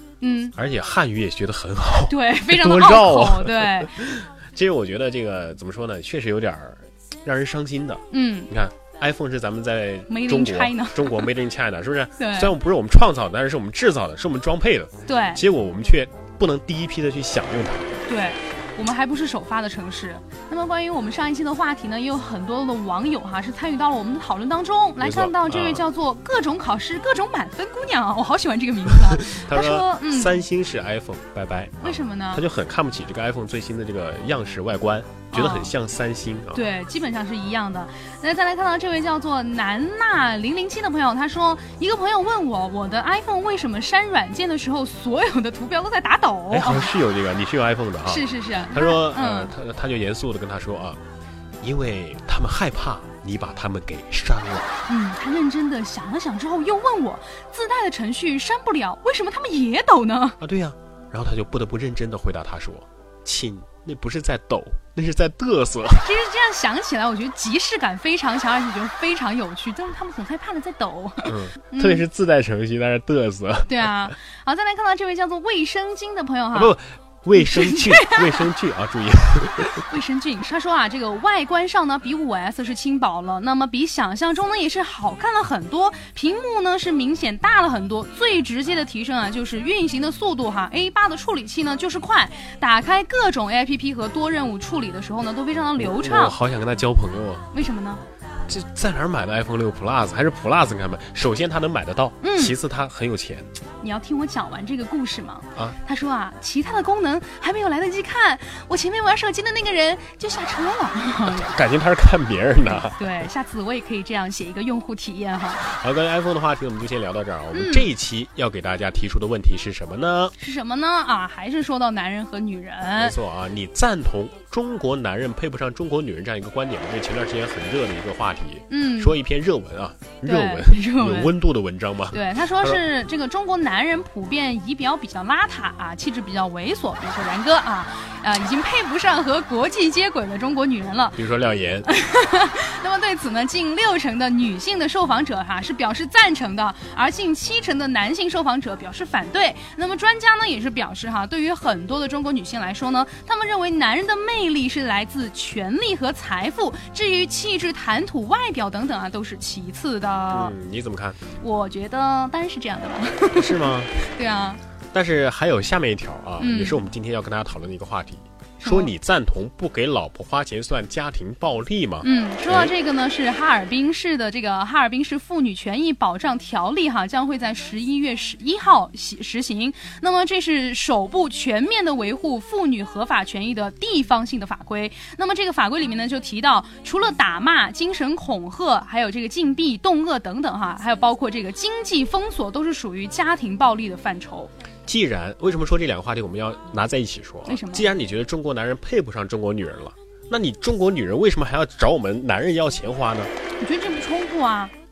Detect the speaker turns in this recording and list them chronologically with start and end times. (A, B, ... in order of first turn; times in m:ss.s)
0:00.2-0:00.6 A
0:00.6-0:18.0 B
0:02.1-0:04.0 A
0:08.1-0:08.5 A
0:10.1-0:11.3 A
0:12.2-0:12.5 A
0:15.1-0:15.4 A
0:18.1-0:30.4 A
0:25.0-0:25.8 B
0:28.9-0:36.6 B
0:31.8-0:32.4 A
0:35.3-0:35.7 A
0:36.5-0:46.9 A
0:46.5-0:51.0 B
0:48.1-0:49.5 A
0:51.6-0:54.8 B
0:54.9-1:00.4 A
1:00.4-1:06.1 B
1:06.0-1:12.0 A
1:11.2-1:14.1 B
1:13.7-1:16.8 A
1:16.5-1:19.8 B
1:17.4-1:18.5 A
1:19.6-1:36.4 A
1:35.8-1:37.5 B
1:37.5-1:38.0 A
1:38.5-1:43.5 B
1:42.2-1:42.6 A
1:43.8-1:51.5 A
1:51.2-1:53.1 B
1:52.6-1:55.6 A
1:55.6-2:00.3 B
1:57.5-1:57.9 A
2:00.4-2:03.2 A
2:03.0-2:12.8 B
2:08.7-2:09.2 A
2:10.2-2:11.4 A
2:12.1-2:21.2 A
2:21.2-2:21.9 B
2:21.9-2:40.6 A
2:40.3-2:41.2 B
2:41.4-2:44.6 A
2:43.3-2:44.0 B
2:44.9-2:52.7 B
2:46.4-2:46.8 A
2:48.6-2:48.9 A
2:52.0-3:14.5 A
3:14.9-3:23.3 B
3:17.5-3:17.9 A
3:23.6-3:24.7 A